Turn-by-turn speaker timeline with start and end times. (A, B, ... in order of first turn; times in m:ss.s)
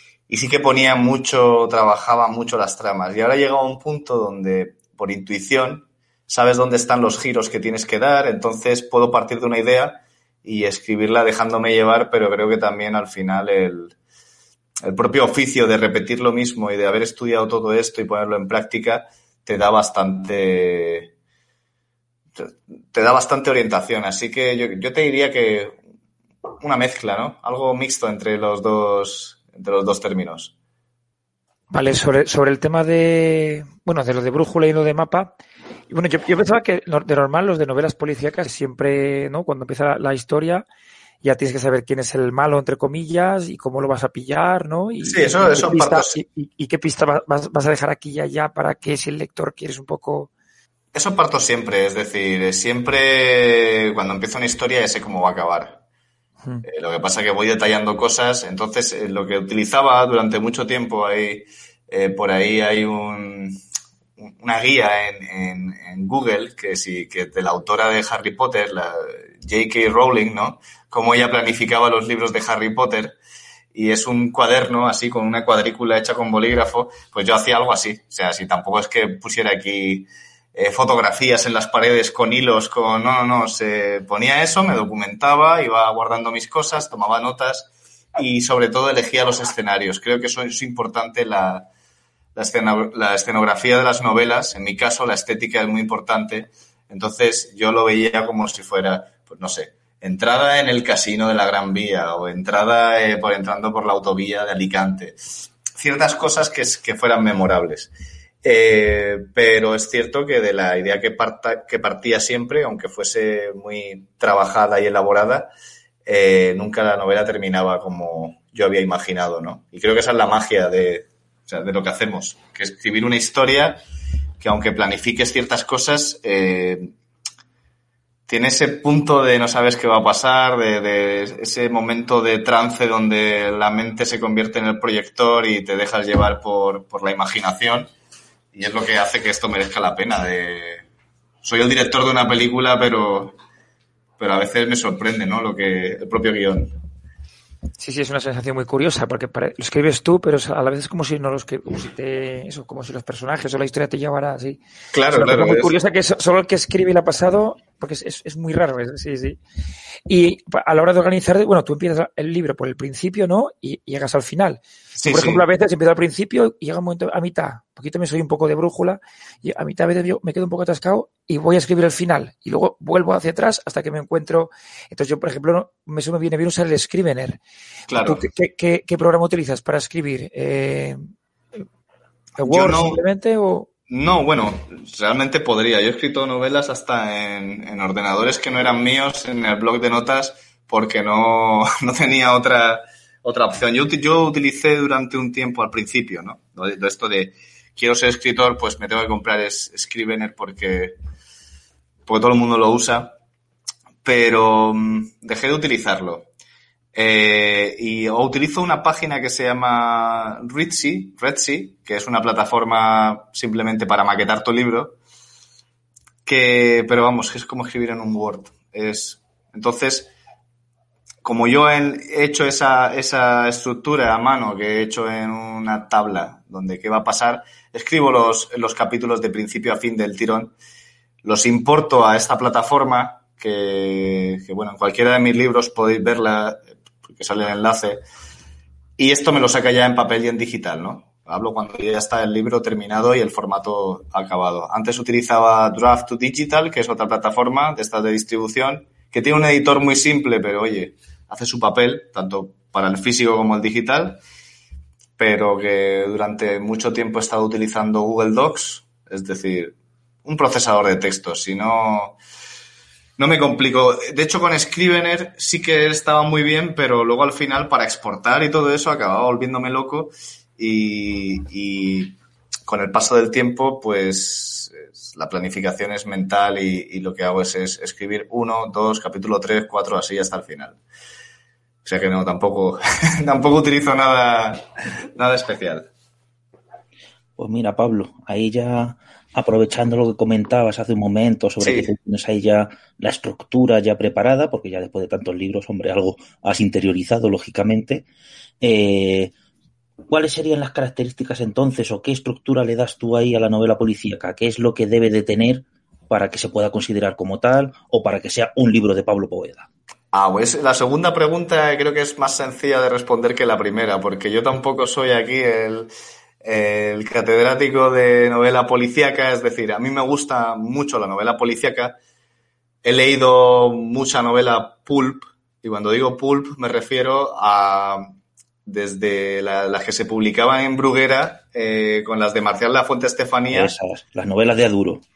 0:00.3-0:13.9 A
0:14.8-0:21.1 A
0:22.4-0:25.7 A
0:26.6-0:30.5 A
0:31.7-0:40.6 B
0:41.2-0:50.3 B
0:45.0-0:46.2 A
0:50.9-0:55.8 A
0:56.6-1:03.6 A
1:04.2-1:13.2 A
1:13.7-1:31.7 A
1:32.3-1:45.2 A
1:45.7-1:47.9 A
1:48.4-1:55.5 A
1:56.0-2:03.8 A
2:04.4-2:06.9 A
2:08.3-2:17.9 A
2:18.5-2:20.8 A
2:21.4-2:23.4 A
2:24.2-2:26.7 A
2:27.8-2:34.6 B
2:34.9-2:35.7 A
2:35.1-2:39.4 B
2:40.1-2:57.4 B
2:45.0-2:45.4 A
2:57.9-2:58.2 A
2:58.0-3:01.0 B
3:02.4-3:03.7 B
3:02.4-3:03.0 A
3:03.9-3:21.0 A
3:22.1-3:23.1 A
3:24.0-3:26.3 A
3:26.9-3:35.0 A
3:36.2-3:40.1 A
3:41.2-3:50.5 A
3:51.2-3:58.0 A
3:59.0-4:14.2 A
4:15.2-4:19.7 A
4:20.2-4:22.2 A
4:23.2-4:40.8 A
4:41.8-4:44.6 A
4:45.2-4:45.9 A
4:47.4-4:58.0 C
4:51.6-4:51.9 A
4:58.6-4:59.3 C
5:00.1-5:09.7 C
5:10.1-5:15.9 A
5:16.4-5:22.0 A
5:22.8-5:28.1 A
5:28.6-5:33.7 A
5:33.5-5:35.0 C